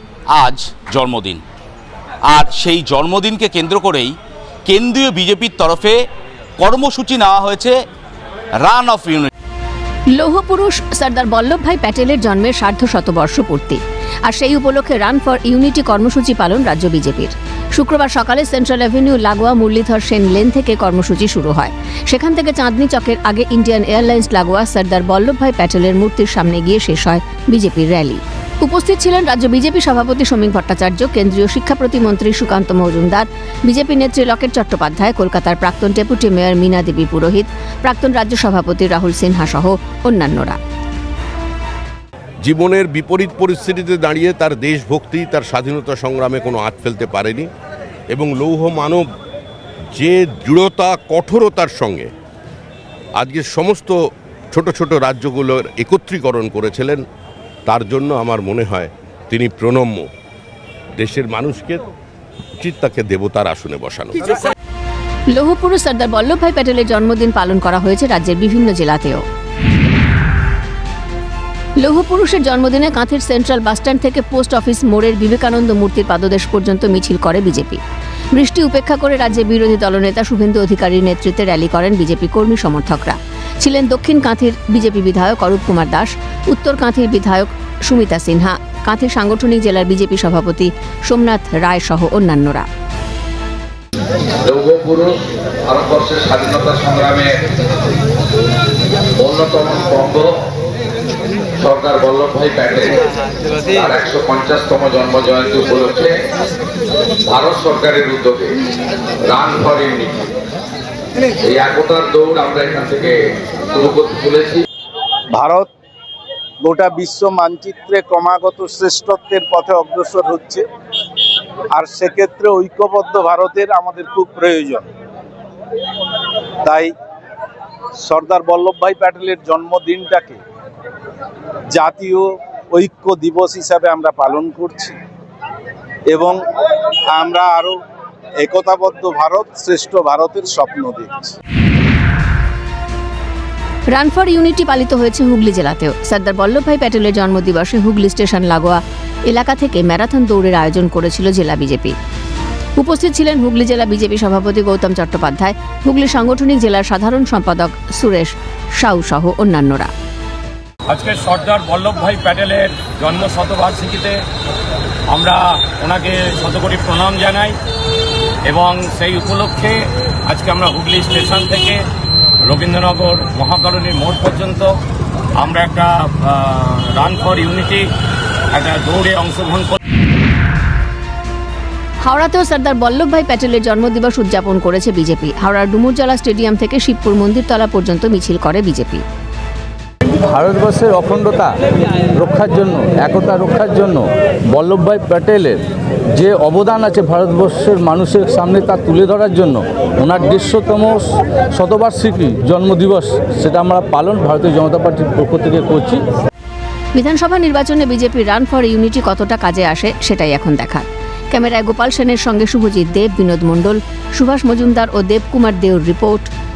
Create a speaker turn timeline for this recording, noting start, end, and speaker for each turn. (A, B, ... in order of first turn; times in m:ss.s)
0:00.3-0:01.4 A
0:02.2-0:07.9 A
0:08.6-0:09.3 A
0:10.1-0:40.6 B
0:42.4-0:47.5 C
0:48.1-0:49.0 C
0:50.0-0:52.1 C
0:53.2-0:54.0 C
0:54.5-0:57.0 C
0:57.7-1:00.1 C
1:01.0-1:01.8 C
1:02.6-1:04.2 C
1:05.3-1:09.2 B
1:11.8-1:17.8 B
1:18.3-1:32.7 B
1:34.4-1:37.4 D
1:39.2-1:40.3 D
1:41.6-1:43.0 D
1:43.7-1:46.2 D
1:47.2-1:48.6 D
1:49.3-1:50.3 D
1:51.4-1:53.2 D
1:53.7-1:54.6 D
1:55.3-1:55.7 E
1:56.6-2:00.6 E
2:01.7-2:04.9 E
2:06.6-2:06.9 E
2:08.0-2:10.4 E
2:11.7-2:15.0 E
2:16.1-2:16.4 E
2:17.1-2:17.8 E
2:18.4-2:21.4 E
2:23.9-2:32.0 B
2:32.8-2:39.9 B
2:40.9-2:44.2 F
2:45.1-2:47.6 F
2:48.5-2:51.8 F
2:52.4-2:54.7 F
2:55.4-2:57.9 F
2:58.5-2:59.8 F
3:02.0-3:09.0 B
3:10.3-3:11.5 G
3:12.2-3:15.6 G
3:16.2-3:26.0 G
3:27.0-3:36.3 B